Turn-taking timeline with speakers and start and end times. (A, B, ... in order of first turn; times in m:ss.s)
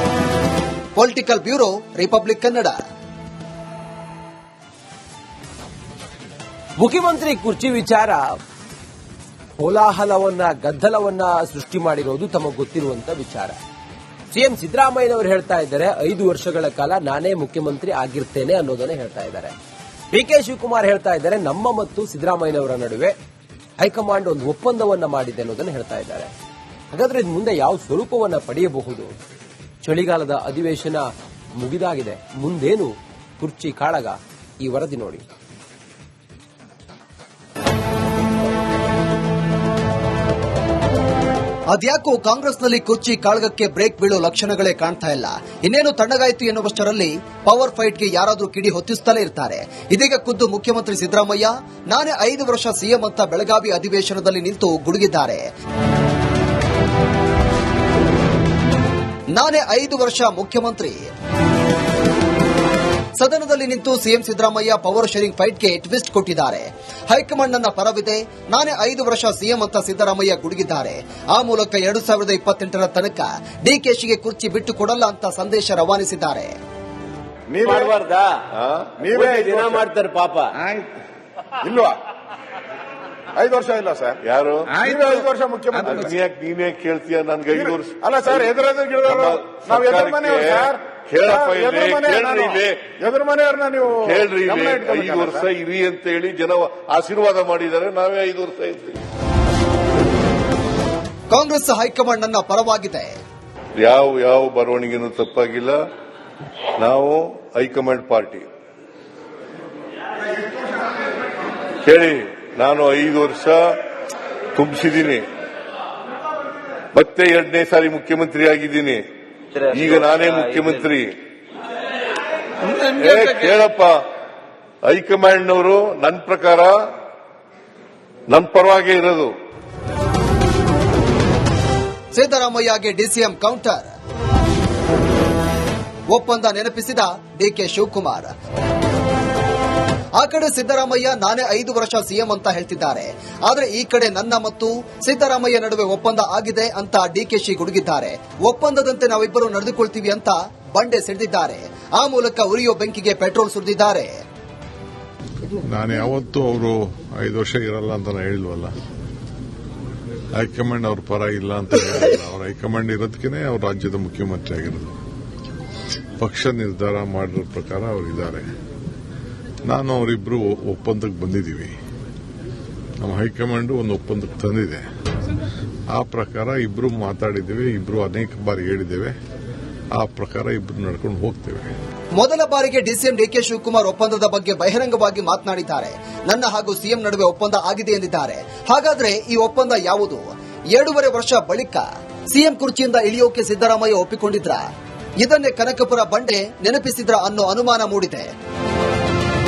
0:01.0-0:02.8 A
0:06.8-0:08.4 B
0:09.6-0:13.6 B
0:14.3-0:19.6 B
0:20.1-0:23.2 B
0:23.8-0:26.3 B
0:26.9-0:29.1 B
0:29.8-0:35.2 B
0:41.7-0:55.4 A
0:59.3-1:01.0 A
1:03.2-1:16.6 A
1:17.5-1:18.0 C
1:17.6-1:18.4 D
1:18.5-1:19.0 E
1:19.0-1:19.8 C
1:19.1-1:20.6 D
1:21.6-1:22.0 C
1:23.4-1:24.2 C
1:24.2-1:24.9 E
1:24.8-1:26.1 C
1:25.9-1:28.5 E
1:27.6-1:35.5 C
1:29.0-1:32.9 E
1:34.0-1:39.0 E
1:41.3-1:43.1 A
1:43.8-1:45.8 E
1:46.8-1:48.5 E
1:51.8-1:53.8 E
1:54.6-1:55.2 E
1:56.9-1:59.0 E
1:59.5-2:00.7 D
1:59.7-2:01.1 E
2:02.6-2:04.0 E
2:04.8-2:06.8 E
2:08.3-2:09.3 E
2:12.2-2:13.9 A
2:16.1-2:18.3 A
2:20.2-2:34.1 A
2:35.6-2:38.7 F
2:40.4-2:45.0 F
2:46.2-2:48.5 F
2:49.7-2:51.8 F
2:53.0-2:54.8 F
2:55.9-2:59.2 F
3:00.0-3:01.8 F
3:02.2-3:10.2 A
3:10.8-3:14.6 A
3:15.2-3:18.3 A